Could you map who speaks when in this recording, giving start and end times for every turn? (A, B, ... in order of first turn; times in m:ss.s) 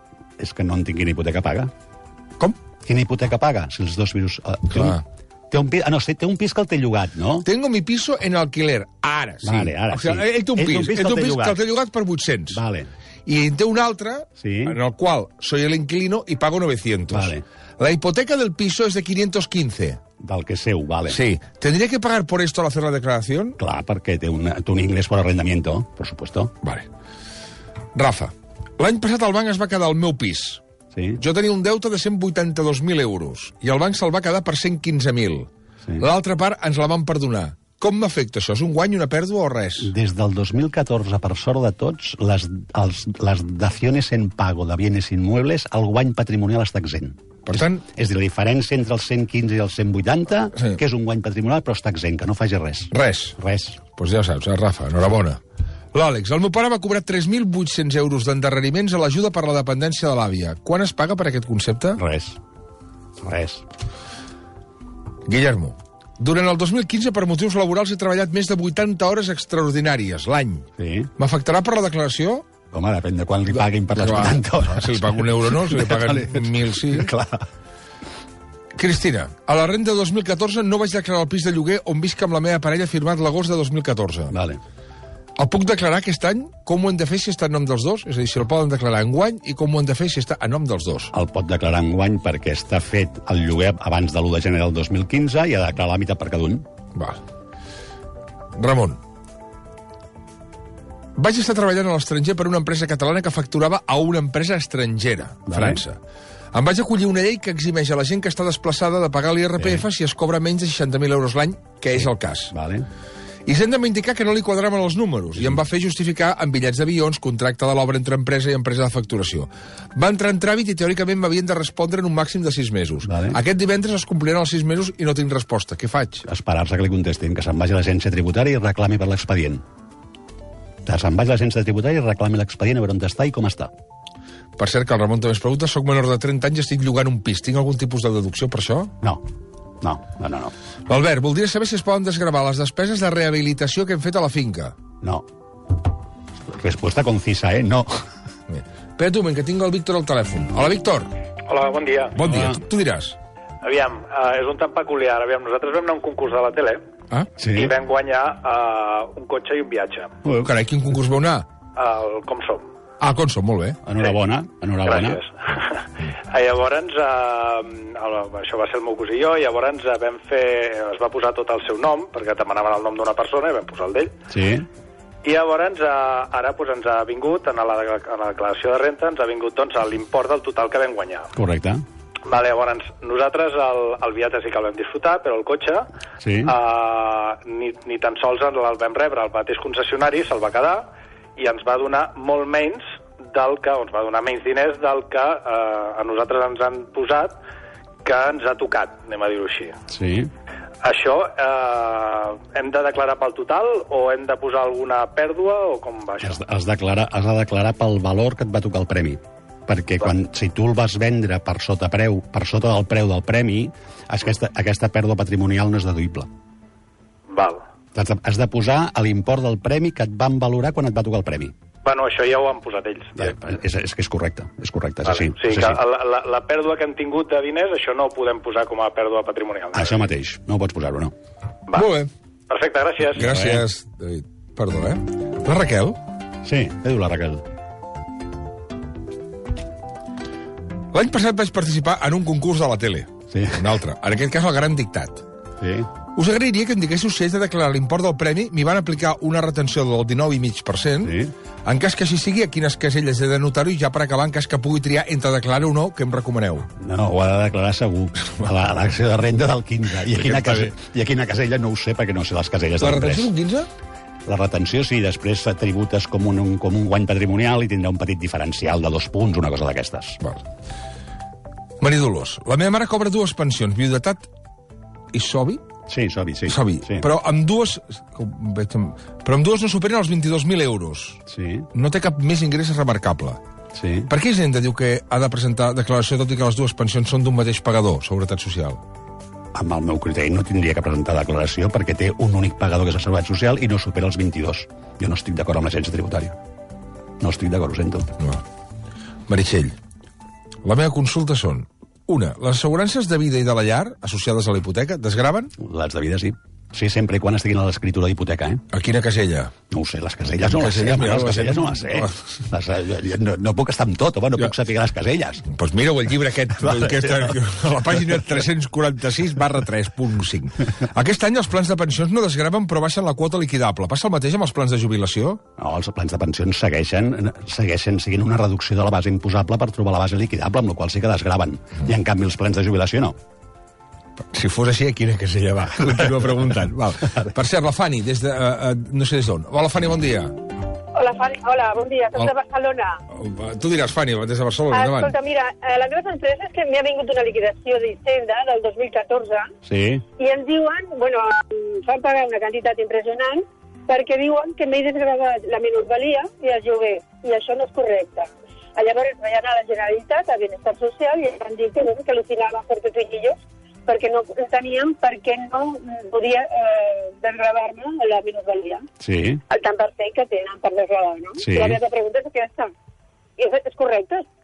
0:00.4-0:01.7 A
0:02.8-0:07.5 A
0:04.7-0:05.0 B
0:07.4-0:12.6 B
0:09.4-0:11.6 A
0:12.5-0:12.9 A
0:13.3-0:20.0 B
0:14.4-0:14.8 A
0:17.1-0:17.4 A
0:20.2-0:21.2 A
0:21.1-0:23.6 B
0:23.6-0:26.5 A
0:26.6-0:26.9 B
0:27.9-0:30.6 B
0:30.9-0:31.2 A
0:31.2-0:39.9 B
0:39.8-0:53.8 A
0:47.5-0:47.8 B
0:52.9-0:53.4 B
0:54.0-0:55.4 B
0:55.9-1:02.0 B
1:02.0-1:02.4 A
1:03.2-1:03.6 A
1:05.3-1:10.7 B
1:10.8-1:11.1 A
1:11.2-1:12.5 B
1:12.7-1:17.5 A
1:14.0-1:17.1 B
1:18.8-1:24.4 B
1:24.3-1:24.6 A
1:25.4-1:31.1 B
1:31.1-1:36.7 A
1:37.0-1:37.2 B
1:38.6-1:39.0 B
1:41.2-1:46.0 B
1:45.5-1:45.8 A
1:46.5-1:52.5 B
1:49.6-1:49.8 A
1:52.0-1:52.9 A
1:53.5-2:06.2 B
2:03.0-2:03.4 A
2:06.3-2:09.6 A
2:10.8-2:13.7 A
2:14.6-2:18.9 B
2:19.8-2:20.5 A
2:20.9-2:24.8 B
2:26.5-2:28.0 A
2:28.5-2:31.1 B
2:31.5-2:32.2 C
2:32.1-2:33.2 B
2:32.2-2:32.6 A
2:33.6-2:36.8 C
2:37.4-2:37.8 A
2:37.4-2:40.1 C
2:40.4-2:41.5 B
2:41.8-2:42.7 C
2:43.0-2:43.8 B
2:43.8-2:45.2 A
2:44.8-2:54.1 C
2:54.3-2:54.7 A
2:55.2-3:01.3 C
3:01.4-3:01.8 A
3:02.3-3:05.9 C
3:06.2-3:06.6 A
3:06.5-3:17.4 C
3:18.0-3:19.8 C
3:19.9-3:20.3 A
3:20.8-3:26.4 C
3:26.2-3:36.3 A
3:37.3-3:37.6 C
3:37.9-3:41.5 A
3:41.8-3:43.3 C
3:43.2-3:45.8 A
3:45.1-3:50.0 C
3:49.7-3:51.1 A
3:51.7-3:52.1 B
3:52.5-3:53.2 C
3:53.1-3:56.0 B
3:53.2-3:53.6 A
3:56.4-3:57.4 A
4:00.9-4:05.2 B
4:03.3-4:03.6 A
4:05.6-4:05.9 A
4:06.2-4:16.7 B
4:11.0-4:11.3 A
4:16.8-4:23.3 A
4:20.1-4:20.7 B
4:22.8-4:23.7 B
4:24.3-4:30.2 A
4:31.8-4:34.3 B
4:35.1-4:35.6 B
4:35.9-4:37.1 A
4:36.5-4:41.2 B
4:41.3-4:41.7 A
4:41.7-4:43.4 B
4:43.7-4:44.1 A
4:44.1-4:48.8 B
4:49.5-4:56.4 A
4:57.2-4:58.1 A
4:59.3-4:59.8 B
5:00.6-5:05.5 B
5:05.6-5:08.6 A
5:08.7-5:09.5 B
5:09.7-5:15.5 A
5:10.4-5:12.2 B
5:15.5-5:25.4 B
5:16.7-5:17.4 A
5:25.6-5:33.2 A
5:34.3-5:40.4 B
5:41.0-5:43.0 D
5:43.1-5:45.2 B
5:44.7-5:49.5 D
5:49.6-5:50.0 A
5:50.2-6:08.8 D
6:09.0-6:09.4 A
6:09.5-6:12.7 D
6:11.4-6:11.8 A
6:13.4-6:14.3 D